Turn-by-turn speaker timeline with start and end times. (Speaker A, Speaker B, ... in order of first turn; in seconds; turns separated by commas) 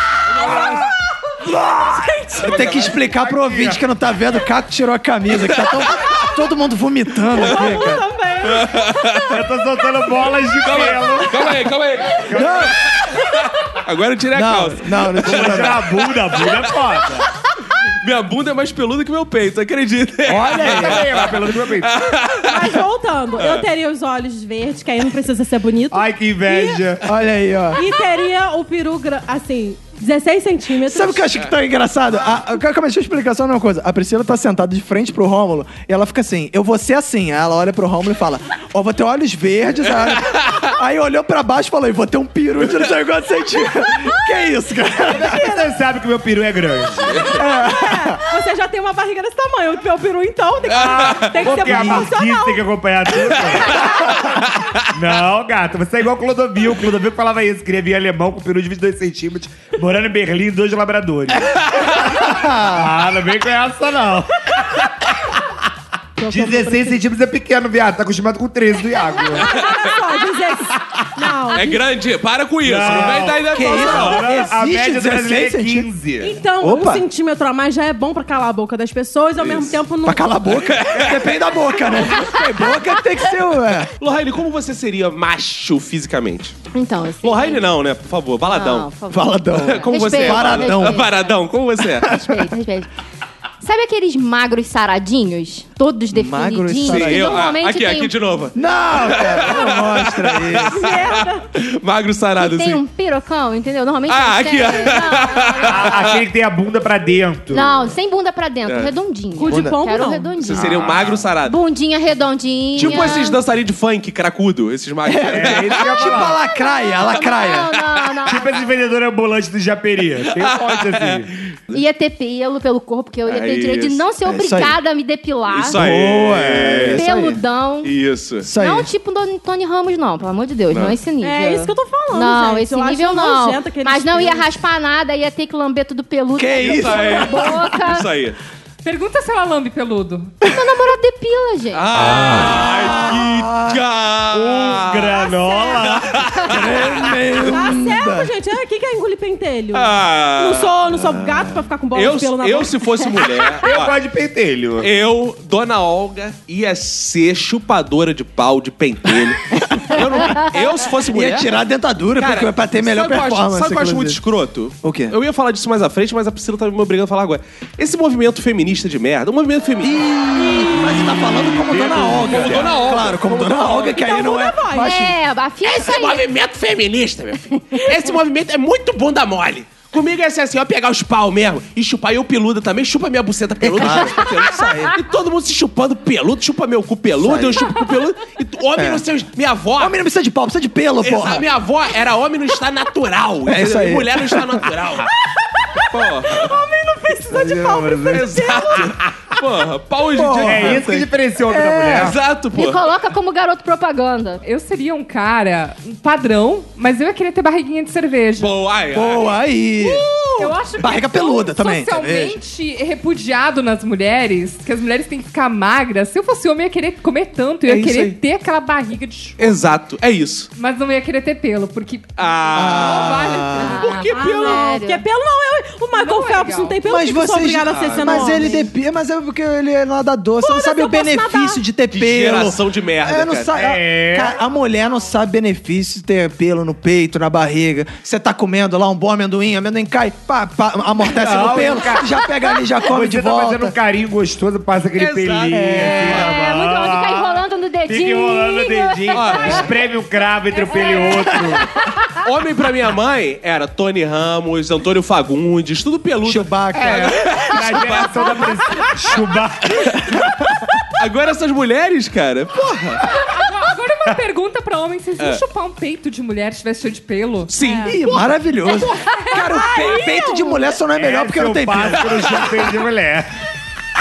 Speaker A: 0.3-3.8, Speaker B: 0.3-0.7, Speaker C: 0.4-0.8, Speaker C: 1.8-2.6, Speaker D: 2.4-8.0, Speaker B: 2.4-3.0, Speaker B: 5.3-5.9, Speaker C: 7.3-9.2, Speaker B: 8.4-9.4, Speaker A: 9.3-12.8, Speaker B: 10.6-15.7, Speaker D: 12.3-12.7, Speaker D: 14.3-15.8, Speaker A: 15.2-17.3, Speaker B: 18.0-22.8, Speaker A: 20.2-22.0, Speaker D: 20.6-20.9, Speaker C: 22.4-26.8, Speaker B: 23.4-23.6, Speaker A: 25.9-27.1, Speaker D: 27.0-27.8, Speaker C: 27.7-31.3, Speaker D: 30.8-45.4, Speaker C: 45.0-45.7, Speaker A: 45.1-47.3, Speaker B: 47.1-47.4, Speaker C: 47.2-52.6, Speaker D: 47.3-48.2, Speaker A: 50.7-54.0, Speaker B: 50.7-51.6, Speaker D: 51.7-52.0, Speaker C: 53.3-53.7, Speaker B: 54.3-54.8, Speaker A: 54.9-65.1, Speaker D: 62.2-62.8, Speaker C: 66.2-67.0, Speaker A: 66.2-69.6, Speaker C: 69.2-71.8, Speaker A: 70.8-71.3, Speaker B: 71.5-74.3, Speaker A: 72.6-76.4, Speaker D: 72.9-75.9, Speaker C: 73.9-74.4, Speaker C: 76.2-80.3, Speaker D: 76.6-77.0, Speaker B: 79.4-79.8, Speaker D: 80.0-83.9, Speaker B: 80.5-81.5, Speaker B: 84.0-86.6, Speaker E: 86.7-87.7, Speaker B: 87.2-88.9, Speaker E: 88.5-91.3, Speaker D: 89.1-91.0, Speaker B: 89.5-92.2, Speaker E: 92.0-92.9, Speaker E: 93.6-98.1, Speaker D: 96.1-97.5, Speaker B: 96.8-102.8, Speaker D: 98.5-100.9, Speaker C: 100.7-101.4, Speaker E: 102.4-106.1, Speaker B: 104.1-106.2, Speaker A: 105.6-107.9, Speaker E: 107.5-110.8, Speaker B: 108.6-108.9, Speaker C: 109.3-110.3, Speaker D: 109.5-109.8, Speaker B: 110.4-111.5, Speaker D: 110.6-111.0, Speaker A: 110.6-111.2, Speaker E: 111.4-113.4, Speaker B: 112.7-116.1, Speaker D: 112.8-113.1, Speaker D: 115.0-118.1, Speaker A: 115.2-116.4, Speaker E: 116.5-118.5, Speaker A: 118.2-121.3, Speaker B: 120.3-121.8, Speaker E: 121.7-125.8, Speaker B: 123.2-124.0, Speaker D: 124.2-124.8, Speaker B: 125.5-127.1, Speaker D: 125.7-127.4, Speaker E: 126.9-127.9, Speaker B: 127.8-128.5, Speaker D: 128.4-128.9, Speaker E: 128.5-138.1, Speaker B: 130.7-130.9, Speaker C: 131.2-134.5, Speaker D: 136.3-137.7, Speaker B: 136.5-138.4, Speaker F: 138.8-140.3, Speaker E: 140.4-142.0, Speaker B: 141.7-145.2, Speaker D: 142.0-143.8, Speaker A: 144.3-146.6, Speaker C: 145.1-146.0, Speaker B: 146.1-147.2, Speaker D: 146.4-148.3, Speaker C: 147.4-152.8, Speaker B: 149.7-150.8, Speaker D: 150.9-151.6, Speaker B: 151.9-153.9, Speaker A: 153.6-154.9, Speaker B: 154.8-161.5, Speaker D: 161.1-164.2, Speaker B: 162.1-171.0, Speaker D: 164.8-165.2, Speaker D: 169.8-175.2, Speaker A: 171.6-172.8, Speaker B: 171.7-174.1, Speaker C: 173.9-175.0, Speaker E: 174.8-176.2, Speaker B: 175.6-189.9, Speaker D: 183.6-184.9, Speaker D: 187.2-187.8, Speaker D: 188.8-189.0, Speaker D: 189.8-191.4, Speaker B: 191.0-195.1, Speaker D: 193.5-194.7, Speaker C: 195.3-198.9, Speaker B: 195.9-196.6, Speaker A: 197.3-199.3, Speaker B: 198.1-200.9, Speaker D: 200.1-202.1, Speaker A: 200.4-202.2, Speaker B: 201.9-202.8, Speaker E: 202.5-204.4, Speaker F: 204.4-208.6, Speaker B: 208.4-209.3, Speaker D: 208.9-210.1, Speaker F: 209.8-219.5, Speaker D: 210.8-212.4, Speaker B: 217.7-218.2, Speaker B: 219.4-220.5, Speaker F: 220.6-224.6, Speaker B: 222.2-224.7, Speaker D: 222.5-223.8, Speaker E: 223.6-225.0, Speaker C: 224.1-228.7, Speaker F: 225.9-226.8, Speaker D: 226.8-243.7, Speaker B: 227.7-228.2, Speaker C: 230.4-231.6, Speaker B: 231.9-233.5, Speaker A: 233.5-234.4, Speaker A: 241.0-242.2, Speaker A: 242.8-251.7, Speaker B: 244.9-246.2, Speaker D: 245.5-246.3, Speaker E: 245.9-249.6, Speaker B: 249.1-249.7, Speaker B: 252.2-258.9, Speaker D: 256.2-257.2, Speaker A: 256.7-260.2, Speaker B: 261.0-263.0, Speaker F: 263.2-267.5, Speaker B: 267.5-268.2, Speaker C: 267.6-268.0, Speaker D: 267.8-272.4, Speaker F: 268.9-269.2, Speaker C: 269.2-270.7, Speaker A: 270.9-273.3